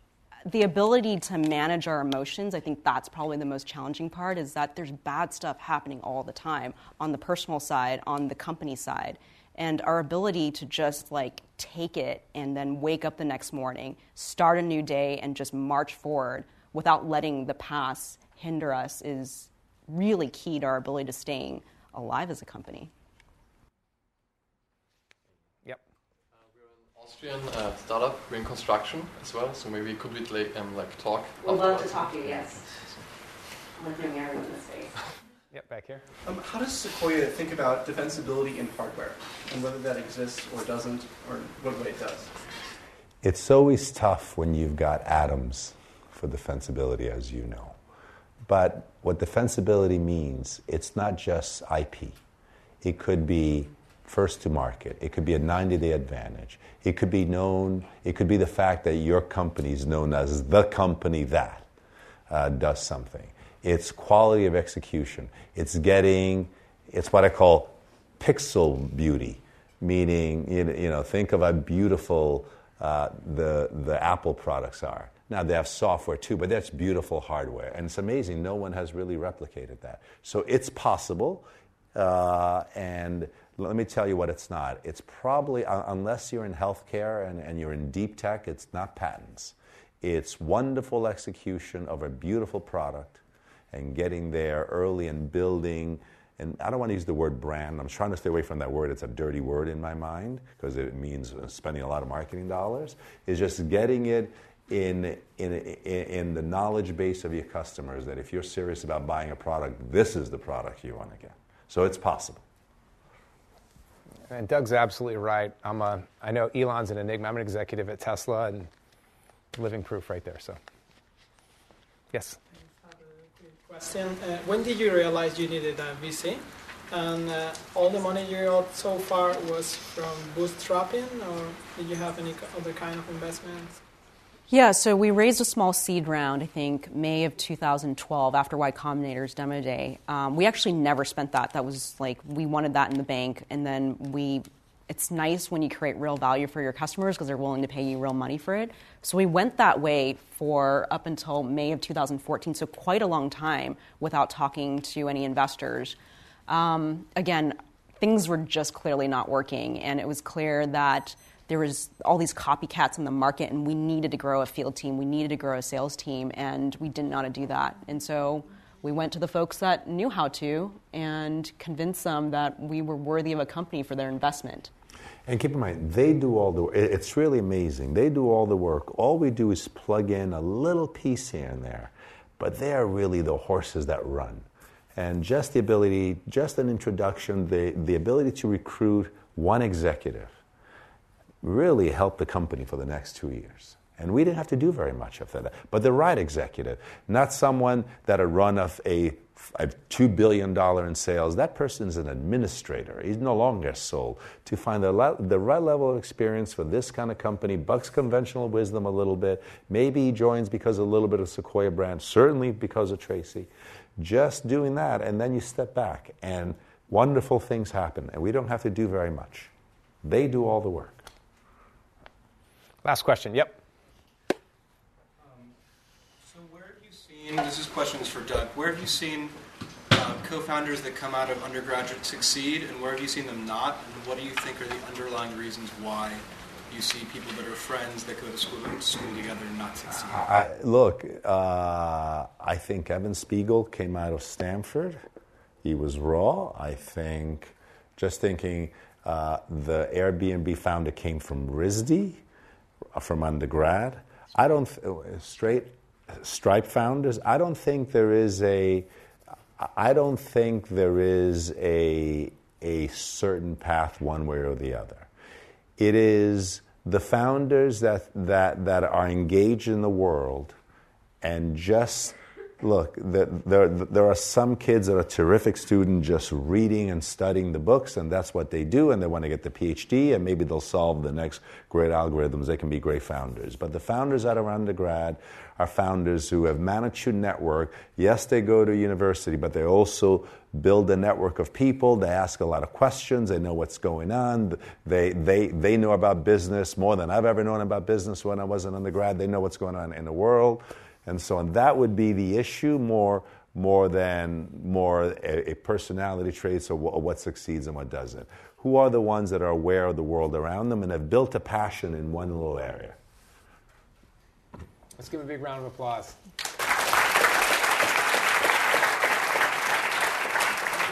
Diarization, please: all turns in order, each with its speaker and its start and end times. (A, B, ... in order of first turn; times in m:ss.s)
0:00.5-0:22.9 A
0:26.5-0:33.0 B
0:31.4-0:32.6 A
0:33.8-0:34.9 A
0:35.5-0:36.0 C
0:36.2-0:42.3 D
0:43.2-0:47.8 E
0:48.5-0:52.2 E
0:52.8-1:01.7 E
1:02.3-1:52.4 E
1:54.3-1:58.7 C
1:59.5-2:00.6 C
2:02.1-2:02.4 C
2:02.8-2:13.8 F
2:14.5-2:36.0 A
2:36.5-2:54.7 A
2:55.3-3:10.4 E
3:11.4-3:39.5 E
3:40.0-3:41.0 E
3:42.8-3:43.6 C
3:45.2-3:45.5 D
3:46.2-3:49.4 D
3:49.9-4:00.4 D
4:00.1-4:05.0 E
4:05.6-4:12.2 E
4:12.9-4:18.9 E
4:19.6-4:25.1 E
4:25.8-4:30.6 E
4:31.2-5:13.0 E
5:15.0-5:16.2 C